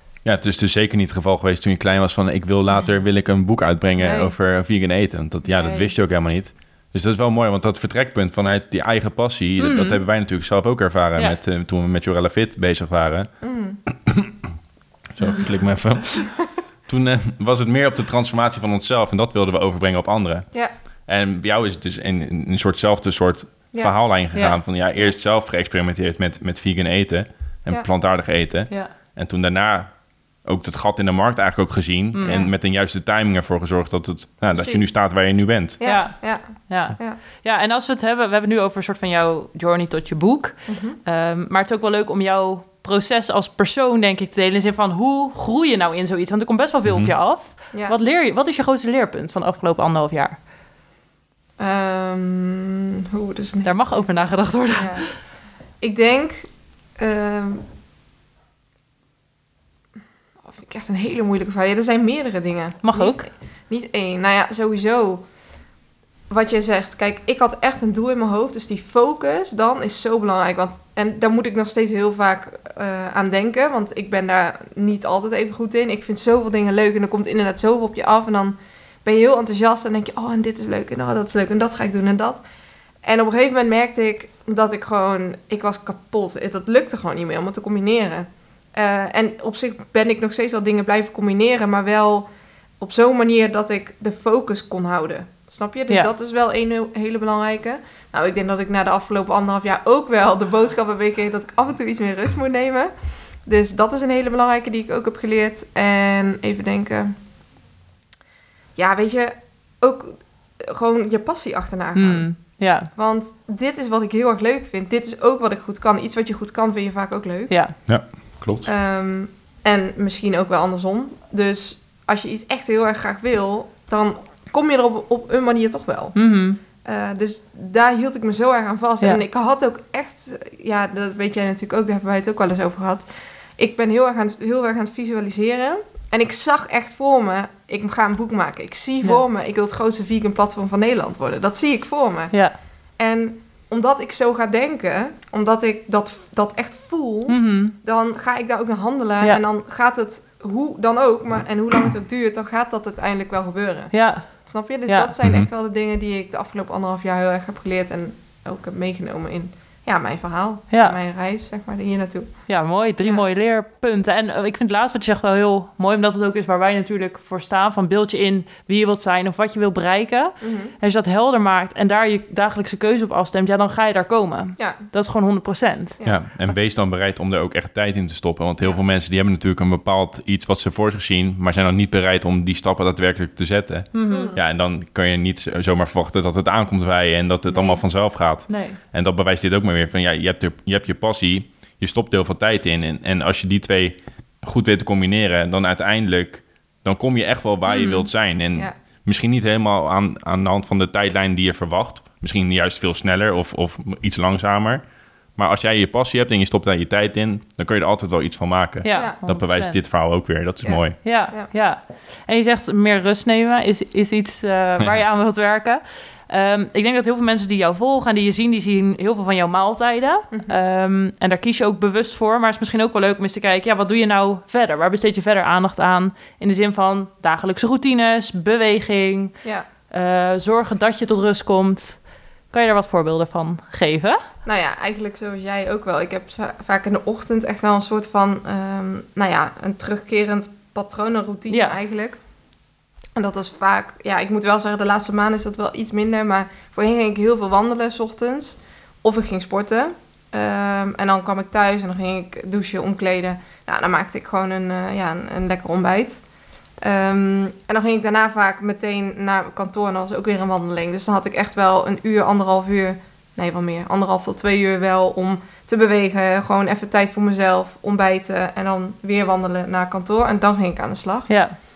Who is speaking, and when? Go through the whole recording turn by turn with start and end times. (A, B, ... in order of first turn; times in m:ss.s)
0:00.2-0:13.3 A
0:04.0-0:04.3 B
0:05.4-0:05.9 B
0:09.6-0:10.0 C
0:13.4-0:13.8 B
0:13.9-0:14.4 A
0:15.2-0:20.5 A
0:21.0-0:35.8 A
0:32.1-0:32.4 C
0:32.2-0:32.5 B
0:34.5-0:35.0 B
0:35.8-0:37.2 B
0:35.8-0:50.4 C
0:40.7-0:41.0 B
0:46.8-0:47.1 A
0:51.6-0:55.2 B
0:53.6-0:55.2 C
0:55.8-0:57.6 B
1:00.4-1:05.2 B
1:02.8-1:03.3 C
1:06.3-1:22.4 B
1:23.0-1:32.3 B
1:32.8-1:47.1 B
1:48.8-1:57.8 B
1:52.0-1:52.9 C
1:57.5-1:57.8 C
1:57.8-1:58.7 A
1:58.6-2:06.2 B
2:06.1-2:06.6 C
2:06.8-2:22.3 B
2:23.0-2:42.5 B
2:27.3-2:27.7 C
2:33.9-2:35.1 C
2:35.2-2:35.5 A
2:40.7-2:41.0 C
2:42.5-2:56.0 C
2:50.4-2:50.7 B
2:54.6-2:54.8 B
2:56.0-2:56.2 B
2:56.0-3:24.8 A
3:03.9-3:04.3 C
3:04.1-3:04.4 B
3:07.5-3:07.8 B
3:08.5-3:08.8 C
3:17.6-3:18.1 C
3:25.4-3:31.0 A
3:28.8-3:29.8 C
3:28.9-3:29.2 B
3:30.6-3:31.5 B
3:31.0-3:49.4 C
3:40.3-3:40.6 B
3:49.9-3:54.2 C
3:54.4-4:02.2 B
4:01.5-4:01.8 C
4:03.2-4:16.2 B
4:16.8-4:31.4 B
4:31.3-4:31.6 C